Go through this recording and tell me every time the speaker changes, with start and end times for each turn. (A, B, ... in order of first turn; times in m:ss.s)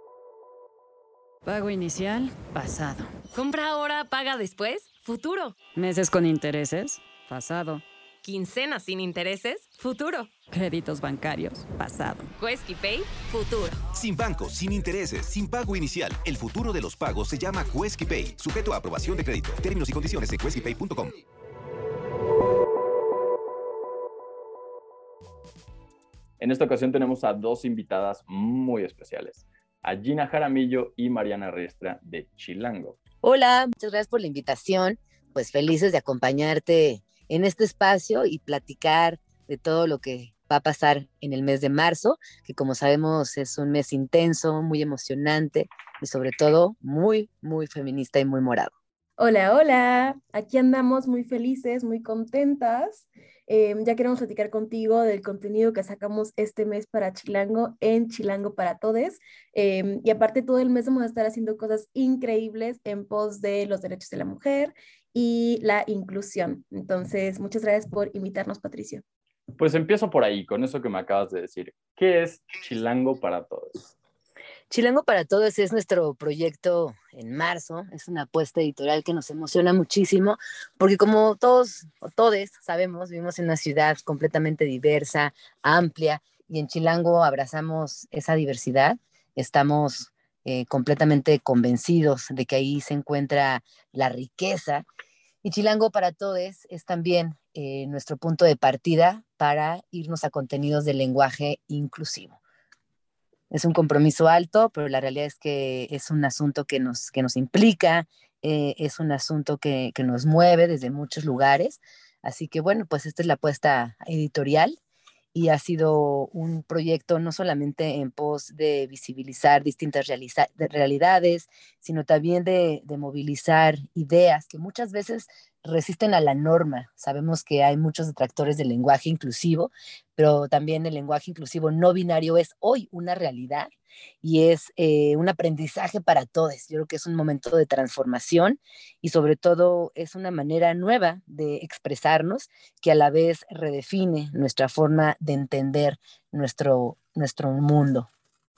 0:01.4-0:03.3 A
0:03.3-0:05.6 B
0:05.7-0:07.8 A
0:08.2-0:10.3 B
0:10.5-0:12.3 A
0:12.4-0:13.8 B
0:13.9-0:21.2 C
0:26.4-0:33.0 D
0:33.2-0:48.7 E
0:49.2-1:09.0 F
1:09.6-1:13.9 D
1:14.7-1:34.8 E
1:35.4-1:42.4 E
1:43.5-1:54.8 E
1:55.3-2:28.1 E